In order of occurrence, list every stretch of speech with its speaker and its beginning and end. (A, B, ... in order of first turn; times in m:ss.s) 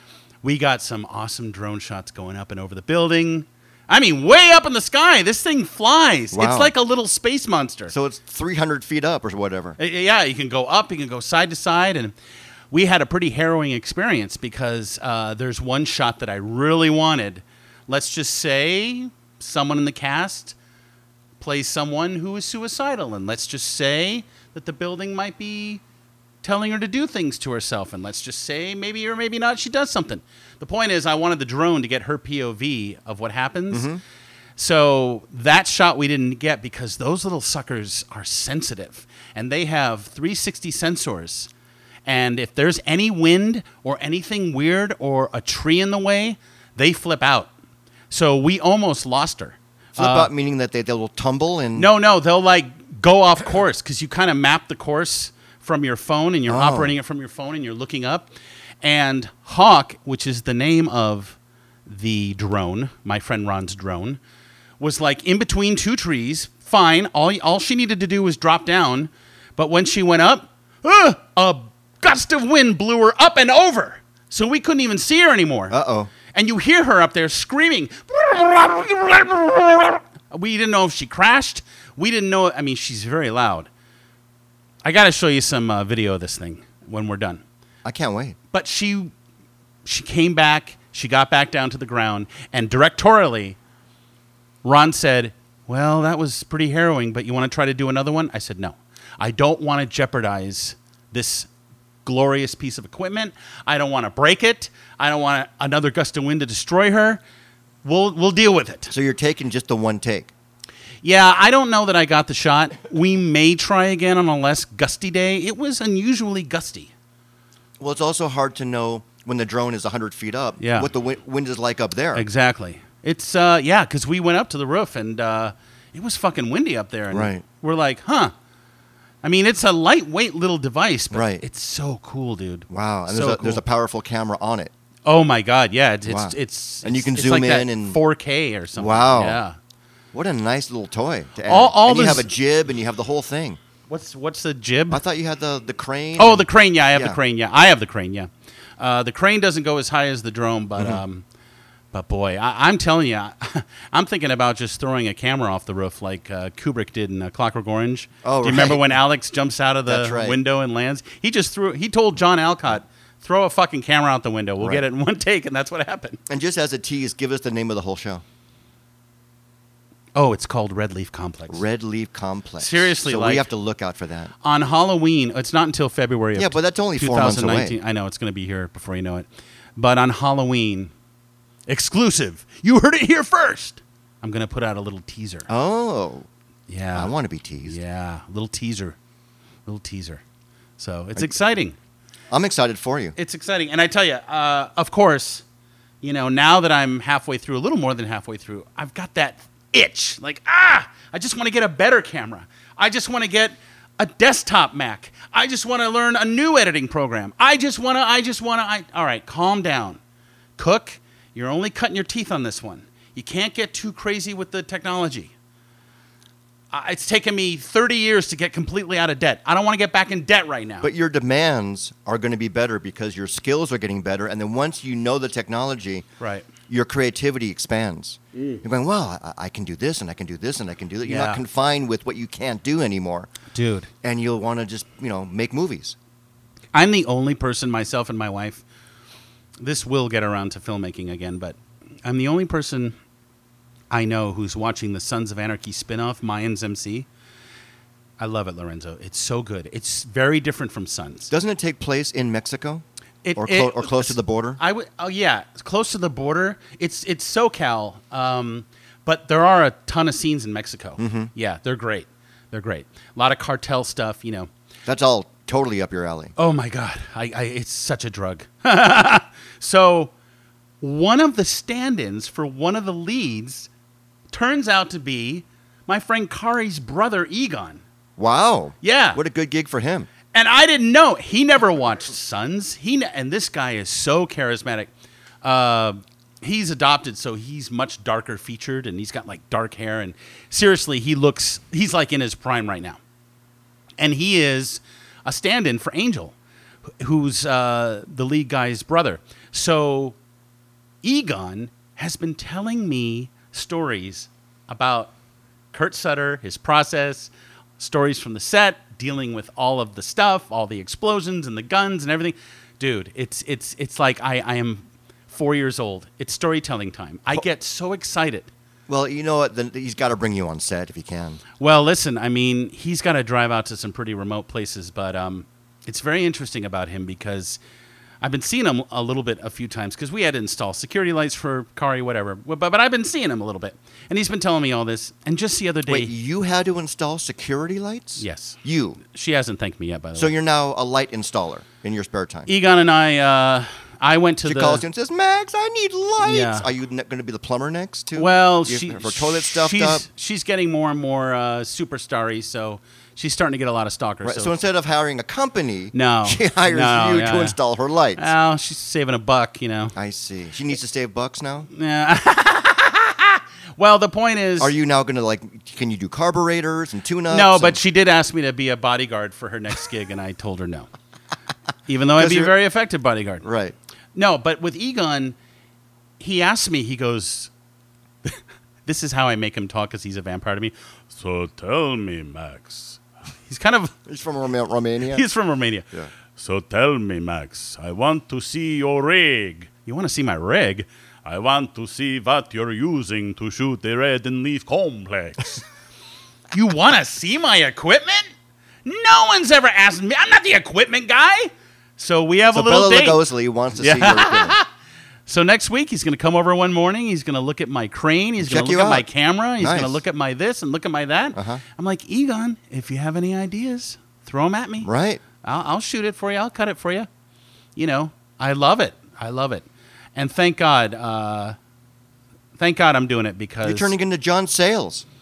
0:00.4-0:07.9 A
0:06.3-0:06.7 B
0:07.9-0:09.8 B
0:09.8-0:12.1 A
0:12.7-0:20.6 A
0:21.4-0:25.8 A
0:26.4-0:33.9 A
0:33.7-0:34.0 B
0:34.6-0:41.5 A
0:42.0-0:47.5 A
0:48.1-0:50.3 A
0:50.0-0:51.9 B
0:51.7-0:58.3 A
0:56.5-0:56.9 B
0:58.8-1:04.2 A
1:04.8-1:15.8 A
1:15.7-1:16.1 B
1:16.3-1:23.7 A
1:24.8-1:27.4 A
1:27.8-1:28.4 B
1:28.5-1:29.1 A
1:29.8-1:33.6 A
1:34.6-1:41.5 A
1:42.0-1:47.2 A
1:47.8-1:48.9 A
1:48.9-1:50.3 B
1:51.0-1:56.9 A
1:57.8-2:02.2 B
2:00.6-2:00.9 A
2:02.1-2:08.3 A
2:07.1-2:07.4 B
2:09.2-2:13.6 A
2:11.1-2:11.4 B
2:12.7-2:14.7 B
2:15.0-2:19.6 A
2:16.0-2:18.0 B
2:18.8-2:19.4 B
2:20.1-2:23.6 B
2:21.4-2:22.3 A
2:23.9-2:25.0 A
2:24.9-2:27.2 B
2:26.2-2:31.2 A
2:31.9-2:46.2 A
2:38.2-2:38.8 B
2:39.9-2:40.4 B
2:46.3-2:48.2 B
2:50.2-2:51.6 A
2:51.5-2:54.3 B
2:52.6-2:53.5 A
2:54.4-3:00.9 A
2:56.4-2:57.8 B
3:01.7-3:05.5 A
3:05.5-3:06.3 B
3:06.7-3:07.1 A
3:06.9-3:07.8 B
3:07.6-3:09.0 A
3:09.6-3:10.2 A
3:10.8-3:11.8 A
3:12.3-3:13.1 B
3:13.2-3:15.4 A
3:16.0-3:30.0 A
3:30.6-3:35.3 A
3:36.7-3:40.9 A
3:40.8-3:46.0 B
3:46.2-3:46.5 A
3:46.7-3:53.3 B
3:48.4-3:48.6 A
3:51.0-3:51.4 A
3:53.5-3:53.9 A
3:54.0-3:56.0 B
3:56.7-3:58.6 A
3:59.6-4:03.0 A
4:03.9-4:07.1 A
4:08.2-4:11.3 A
4:11.3-4:12.8 B
4:13.2-4:24.5 A
4:13.4-4:14.6 B
4:21.0-4:21.3 B
4:24.8-4:26.3 B
4:26.4-4:30.1 A
4:30.8-4:33.7 A
4:34.3-4:37.8 A
4:38.2-4:40.1 B
4:38.8-4:39.2 A
4:40.3-4:44.9 A
4:45.4-4:53.0 A
4:54.0-4:56.3 A
4:57.0-5:00.2 A
5:01.0-5:05.1 A
5:05.7-5:18.5 A
5:18.9-5:21.4 B
5:21.6-5:27.6 A
5:28.2-5:36.1 A
5:35.9-5:39.0 B
5:38.2-5:40.3 A
5:40.2-5:42.5 B
5:42.5-5:44.8 A
5:44.4-5:50.0 B
5:46.2-5:46.7 A
5:48.1-5:54.5 A
5:54.2-5:58.3 B
5:55.9-5:57.6 A
5:58.2-5:59.9 A
6:00.0-6:01.7 B
6:01.7-6:04.7 A
6:04.6-6:07.8 B
6:07.3-6:10.9 A
6:11.9-6:13.4 A
6:12.2-6:12.5 B
6:13.4-6:13.7 B
6:14.1-6:15.4 A
6:16.2-6:17.5 A
6:18.2-6:23.9 A
6:24.0-6:25.2 B
6:25.1-6:35.6 A
6:36.5-6:38.3 A
6:38.8-6:43.2 A
6:42.5-6:44.6 B
6:43.8-6:44.7 A
6:45.3-6:54.9 A
6:48.4-6:49.0 B
6:49.6-6:50.0 B
6:51.3-6:51.6 B
6:54.8-6:55.2 B
6:55.4-6:57.1 A
6:57.8-7:01.6 A
7:02.6-7:03.9 A
7:03.6-7:05.0 B